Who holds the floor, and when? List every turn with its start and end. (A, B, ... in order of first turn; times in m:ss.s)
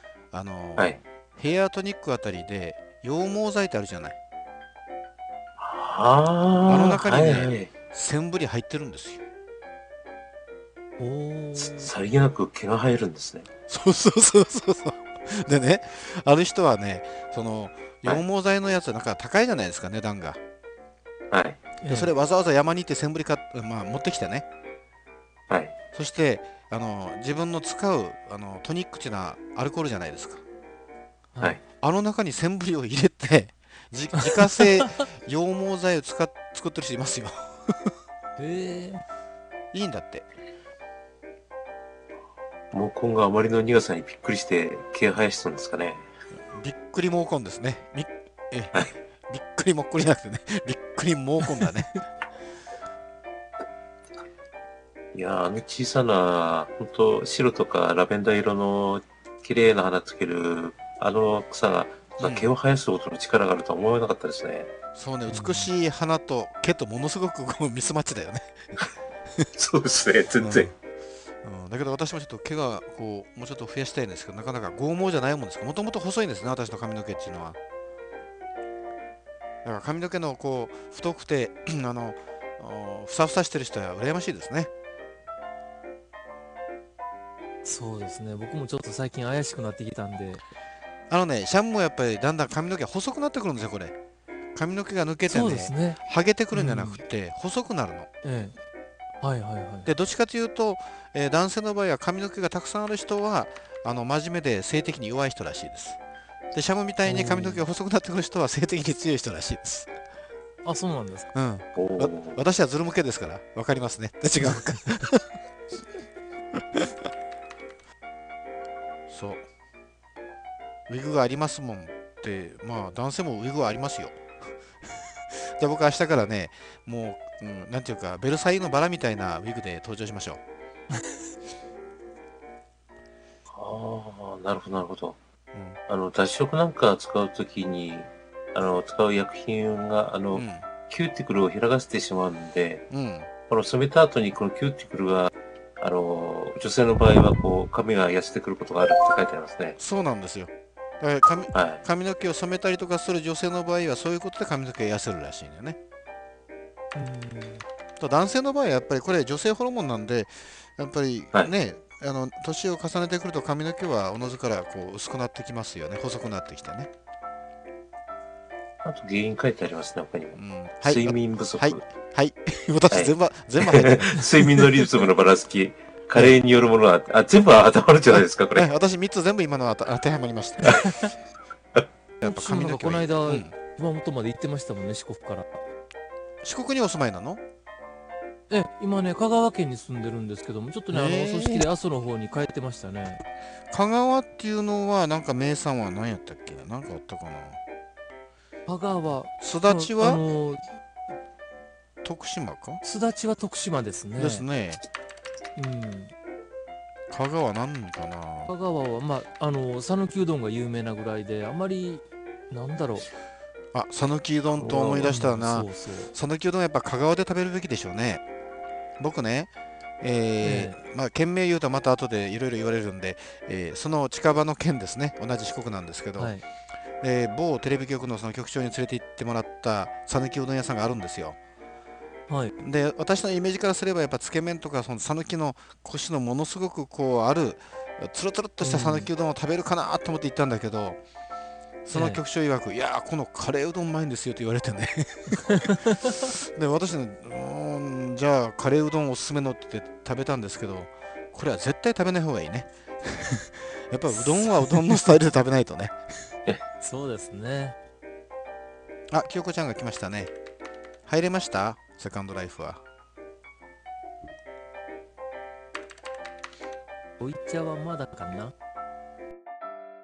0:00.3-0:04.2 A
0:05.6-0:07.7 B
0:06.7-0:09.2 A
0:11.0-0:11.9 C
0:11.6-0:13.5 B
0:13.7-0:20.4 A
0:21.3-0:21.6 B
0:21.8-0:22.1 C
0:21.9-0:24.4 A
0:25.5-0:25.7 B
0:25.9-0:30.4 A
0:31.8-0:37.7 A
0:38.4-0:39.0 C
0:39.7-0:40.3 A
0:42.7-0:46.0 B
0:46.5-0:52.0 A
0:55.1-1:04.7 B
1:02.2-1:02.5 A
1:04.9-1:08.6 A
1:05.3-1:05.7 C
1:09.6-1:10.7 B
1:10.4-1:10.7 A
1:11.4-1:17.6 A
1:19.6-1:24.7 A
1:27.6-1:30.4 C
1:31.1-1:34.0 A
1:34.5-1:38.1 A
1:35.3-1:36.0 C
1:36.5-1:37.0 C
1:38.2-1:38.6 C
1:39.2-1:39.9 C
1:39.8-1:46.0 A
1:46.5-1:49.9 A
1:47.0-1:47.7 C
1:50.6-1:51.3 C
1:51.3-1:55.2 A
1:51.8-1:52.4 B
1:59.1-1:59.4 A
2:00.9-2:04.2 A
2:05.3-2:10.4 A
2:13.5-2:15.2 B
2:15.5-2:15.8 A
2:15.9-2:22.8 B
2:20.3-2:20.6 A
2:22.9-2:23.3 A
2:23.5-2:29.8 B
2:29.8-2:35.8 A
2:31.5-2:31.8 B
2:36.9-2:37.6 C
2:38.0-2:46.9 A
2:48.8-2:51.8 B
2:50.4-2:54.3 A
2:52.9-2:58.7 B
2:58.1-3:00.9 A
3:00.7-3:01.0 C
3:02.2-3:03.5 A
3:02.2-3:05.6 C
3:06.4-3:07.4 A
3:08.5-3:13.2 C
3:10.9-3:11.7 A
3:13.7-3:17.6 A
3:18.6-3:20.6 C
3:19.4-3:20.2 A
3:22.0-3:22.8 A
3:22.8-3:24.5 C
3:24.2-3:24.8 A
3:25.6-3:26.1 C
3:27.1-3:28.5 A
3:28.5-3:33.1 C
3:33.7-3:38.2 A
3:34.6-3:36.1 C
3:39.0-3:46.4 A
3:40.4-3:40.8 C
3:46.2-3:46.4 C
3:47.0-3:51.4 A
3:52.3-3:52.5 C
3:52.6-4:01.0 A
3:58.6-3:59.1 C
4:01.8-4:05.5 A
4:01.9-4:02.2 C
4:05.6-4:05.9 C
4:06.3-4:15.9 A
4:14.2-4:14.8 C
4:16.8-4:17.8 C
4:19.1-4:20.3 A
4:21.0-4:22.8 A
4:27.2-4:28.5 C